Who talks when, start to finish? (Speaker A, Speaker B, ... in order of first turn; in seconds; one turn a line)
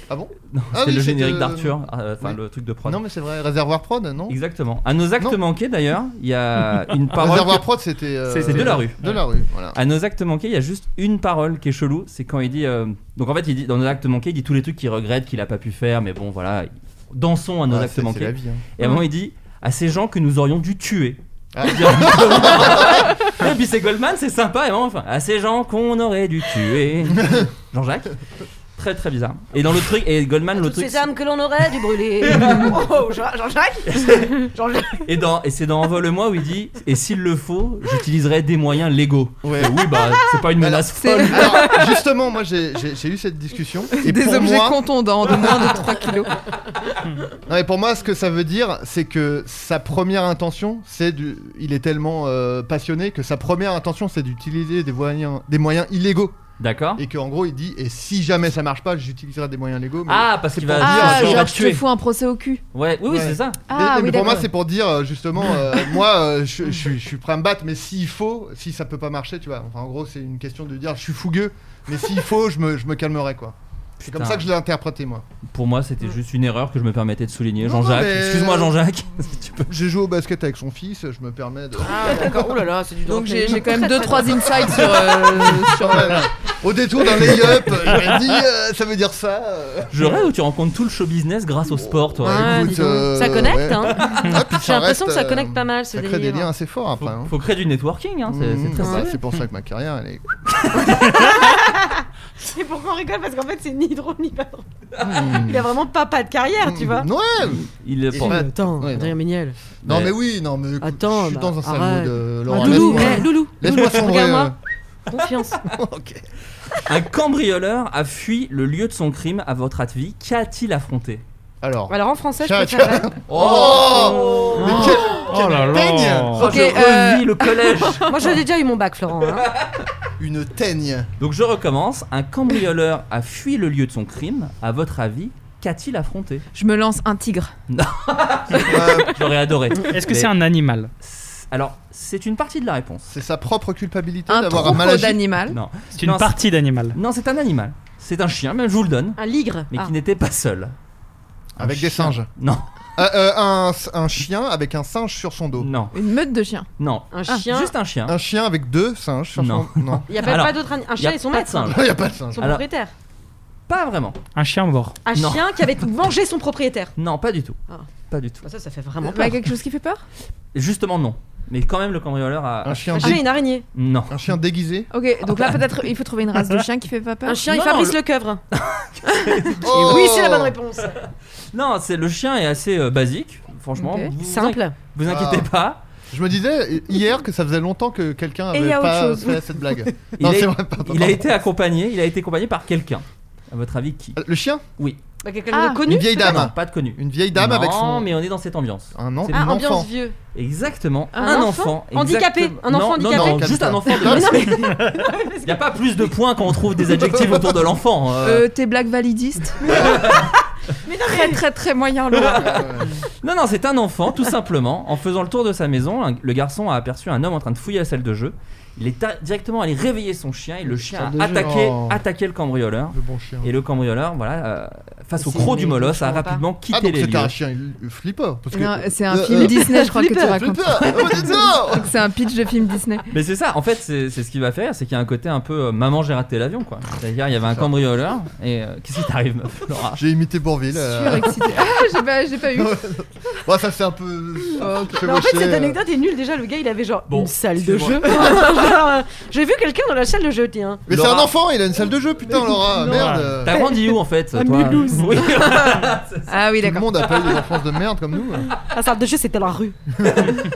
Speaker A: 0.1-4.4
Speaker B: 0.5-3.0
Speaker B: 4.3-7.7
Speaker A: 7.1-9.8
Speaker C: 8.3-9.2
Speaker B: 8.4-9.0
Speaker B: 9.7-28.2
Speaker A: 17.7-18.6
Speaker A: 21.5-23.1
Speaker A: 27.2-27.5
Speaker B: 28.8-31.0
Speaker D: 30.5-35.1
Speaker B: 32.3-32.8
Speaker B: 33.9-41.8
Speaker A: 39.4-45.8
Speaker E: 41.0-41.9
Speaker E: 44.0-46.4
Speaker A: 47.5-56.4
Speaker B: 56.6-57.0
Speaker A: 57.0-61.5
Speaker B: 60.1-61.8
Speaker E: 60.8-62.6
Speaker B: 62.7-63.6
Speaker A: 63.1-75.2
Speaker E: 63.7-64.5
Speaker B: 74.0-74.5
Speaker B: 75.5-79.7
Speaker A: 77.6-78.8
Speaker A: 79.7-82.4
Speaker D: 81.8-84.8
Speaker E: 82.1-82.5
Speaker E: 83.0-86.3
Speaker A: 84.4-90.2
Speaker B: 89.9-92.8
Speaker A: 91.8-97.3
Speaker D: 92.2-96.5
Speaker B: 94.0-94.3
Speaker B: 97.0-99.2
Speaker A: 98.3-100.9
Speaker B: 100.6-101.1
Speaker D: 101.0-104.7
Speaker B: 105.0-105.4
Speaker A: 105.0-105.7
Speaker D: 105.2-107.1
Speaker A: 106.6-109.2
Speaker B: 107.4-108.5
Speaker D: 108.1-109.6
Speaker B: 109.8-110.1
Speaker A: 109.8-114.5
Speaker D: 110.8-114.5
Speaker B: 112.6-113.1
Speaker D: 115.1-115.6
Speaker A: 115.7-116.2
Speaker B: 116.8-121.2
Speaker A: 121.6-126.6
Speaker D: 121.9-123.1
Speaker B: 123.3-125.8
Speaker D: 124.6-124.9
Speaker C: 125.3-126.5
Speaker B: 126.3-128.1
Speaker E: 126.4-128.3
Speaker D: 128.1-129.5
Speaker B: 129.4-129.7
Speaker A: 130.2-131.1
Speaker B: 131.2-136.4
Speaker E: 136.5-137.5
Speaker B: 137.7-140.3
Speaker A: 138.7-139.2
Speaker C: 139.8-140.9
Speaker B: 141.0-143.1
Speaker A: 143.1-145.3
Speaker E: 144.3-145.6
Speaker B: 145.5-146.4
Speaker C: 146.0-147.0
Speaker B: 146.9-149.2
Speaker D: 149.2-149.9
Speaker B: 149.7-150.8
Speaker A: 151.6-152.3
Speaker B: 151.6-152.7
Speaker A: 153.0-155.7
Speaker B: 155.6-156.0
Speaker E: 155.9-156.7
Speaker B: 156.8-158.2
Speaker D: 157.1-157.7
Speaker A: 158.1-160.1
Speaker B: 159.4-162.6
Speaker D: 160.1-161.8
Speaker A: 161.6-162.4
Speaker D: 162.3-162.9
Speaker B: 163.7-164.2
Speaker C: 164.3-165.0
Speaker D: 165.1-166.9
Speaker B: 165.1-165.8
Speaker B: 167.0-167.6
Speaker B: 168.1-168.4
Speaker D: 168.4-169.4
Speaker E: 169.0-170.0
Speaker B: 170.5-173.2
Speaker A: 172.6-173.3
Speaker D: 172.9-173.7
Speaker B: 173.7-174.2
Speaker A: 174.1-174.9
Speaker E: 174.9-177.5
Speaker D: 177.2-178.4
Speaker B: 177.5-178.0
Speaker B: 178.5-180.0
Speaker A: 179.6-180.6
Speaker D: 179.7-181.0
Speaker B: 181.5-185.8
Speaker E: 183.8-184.1
Speaker D: 184.2-184.8
Speaker A: 185.1-185.5
Speaker A: 186.1-191.3
Speaker D: 188.5-189.4
Speaker B: 190.2-194.2
Speaker A: 194.2-194.6
Speaker D: 195.2-196.4
Speaker E: 195.5-195.8
Speaker A: 195.8-198.1
Speaker B: 196.2-199.5
Speaker A: 198.9-199.9
Speaker D: 199.3-200.2
Speaker B: 200.3-204.6
Speaker E: 201.1-201.5
Speaker D: 201.2-206.1
Speaker A: 203.0-204.5
Speaker B: 205.4-208.5
Speaker A: 206.9-207.6
Speaker E: 208.2-209.6
Speaker D: 209.7-210.3
Speaker B: 209.7-210.3
Speaker D: 210.8-211.4
Speaker E: 211.0-212.7
Speaker B: 212.1-212.7
Speaker A: 212.4-212.9
Speaker B: 213.2-227.3
Speaker A: 220.7-222.0
Speaker A: 222.9-223.5
Speaker D: 225.2-226.4
Speaker A: 226.7-232.0
Speaker E: 228.5-233.1
Speaker D: 229.7-230.4
Speaker B: 233.1-240.0
Speaker A: 239.9-241.7
Speaker E: 240.7-242.8
Speaker A: 242.5-245.8
Speaker E: 244.6-245.0
Speaker D: 245.0-250.9
Speaker B: 247.1-248.4
Speaker A: 250.9-253.5
Speaker B: 250.9-251.3
Speaker D: 252.3-255.6
Speaker C: 252.9-253.3
Speaker B: 253.4-256.3
Speaker E: 256.3-257.0
Speaker A: 256.6-258.5
Speaker D: 258.5-259.8
Speaker B: 260.1-260.4